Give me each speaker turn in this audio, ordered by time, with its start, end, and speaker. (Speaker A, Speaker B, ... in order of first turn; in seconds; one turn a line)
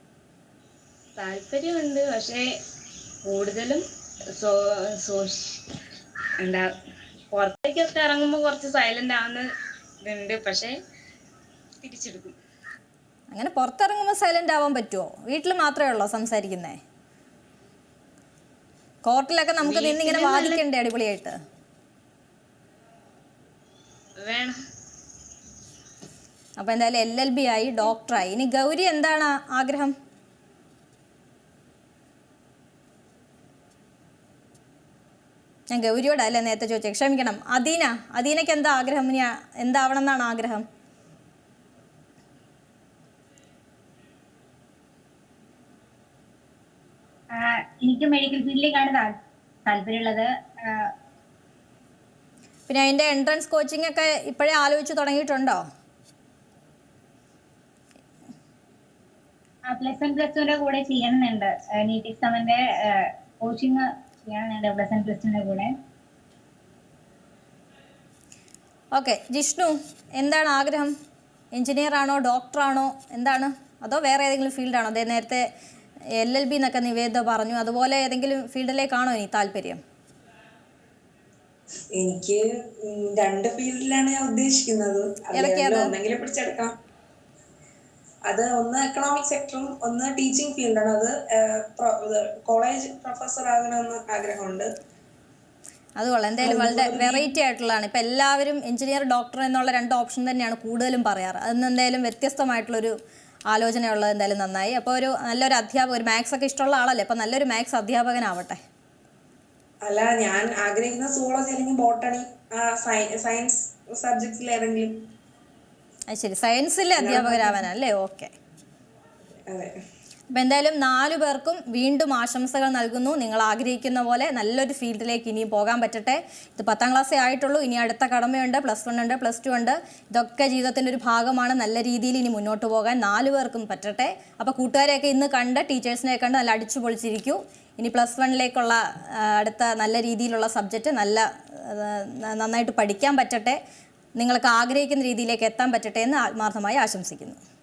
Speaker A: 1.2-2.5
Speaker A: 3.2-5.7
Speaker A: 6.4-6.7
Speaker A: 7.3-9.5
Speaker A: 10.0-10.8
Speaker A: 11.8-12.3
Speaker B: 13.3-16.8
Speaker B: 19.1-21.4
Speaker A: 19.6-20.6
Speaker A: 24.2-24.6
Speaker B: 26.6-29.9
Speaker B: 35.7-40.6
Speaker C: 47.3-50.9
Speaker B: 52.7-55.6
Speaker C: 59.7-65.7
Speaker B: 68.9-70.9
Speaker B: 71.5-75.5
Speaker B: 76.2-79.8
Speaker D: 81.9-86.8
Speaker B: 85.3-85.9
Speaker D: 88.3-94.7
Speaker B: 96.0-102.9
Speaker D: 96.4-97.3
Speaker B: 103.5-108.6
Speaker D: 109.8-115.0
Speaker B: 116.1-118.3
Speaker D: 117.0-117.7
Speaker D: 119.3-119.8
Speaker B: 120.3-143.6
Speaker B: 144.2-147.4